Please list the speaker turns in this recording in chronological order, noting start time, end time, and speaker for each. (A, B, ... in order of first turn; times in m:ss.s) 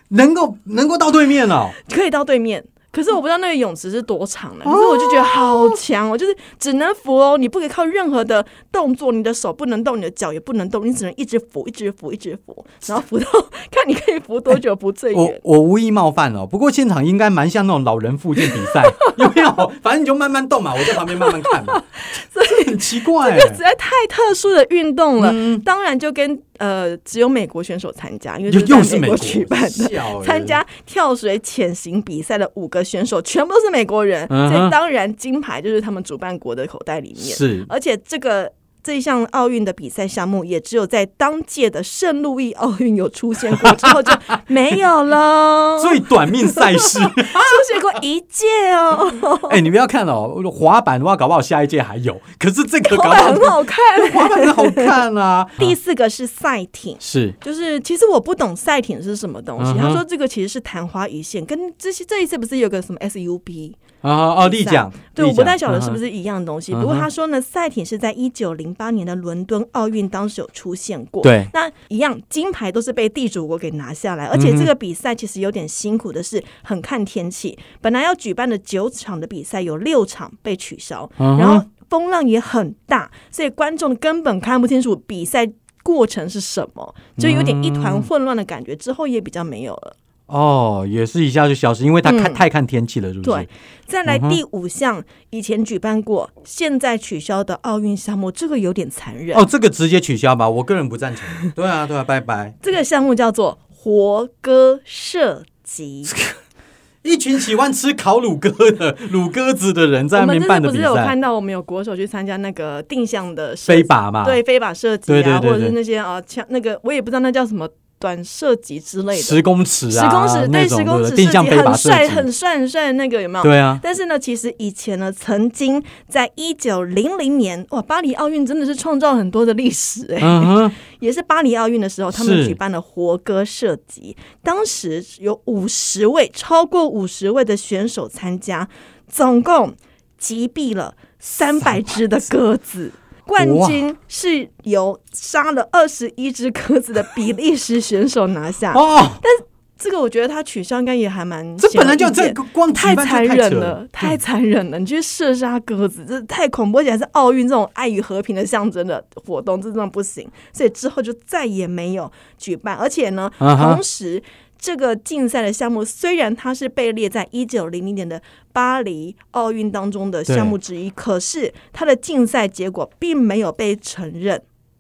0:00.1-0:01.8 A
0:01.8-0:15.4 B
0:04.6-0:05.8 A
0:15.1-0:23.6 A
0:18.4-0:19.5 B
0:20.8-0:49.6 B
0:25.2-0:25.6 A
0:28.5-0:30.6 A
0:34.3-0:34.8 A
0:37.2-0:37.7 A
0:43.5-0:44.4 A
0:45.8-0:48.0 A
0:49.5-0:55.8 A
0:52.8-0:55.0 B
0:55.6-1:03.8 B
0:57.0-0:57.4 A
0:59.6-1:00.0 A
1:04.0-1:06.0 A
1:04.4-1:30.0 B
1:06.7-1:07.1 A
1:11.2-1:11.5 A
1:14.3-1:14.7 A
1:21.2-1:21.6 A
1:27.2-1:28.1 A
1:30.3-1:33.5 A
1:32.0-1:32.4 B
1:33.2-1:39.4 B
1:34.1-1:34.4 A
1:39.3-1:42.6 A
1:42.6-1:46.1 B
1:47.0-1:51.2 A
1:50.1-2:54.4 B
1:53.7-1:54.4 A
1:55.1-1:55.8 A
1:59.1-2:02.3 A
2:03.4-2:03.8 A
2:10.2-2:10.8 A
2:12.1-2:12.6 A
2:23.4-2:23.8 A
2:28.7-2:29.2 A
2:31.6-2:34.2 A
2:43.4-2:43.8 A
2:50.3-2:50.6 A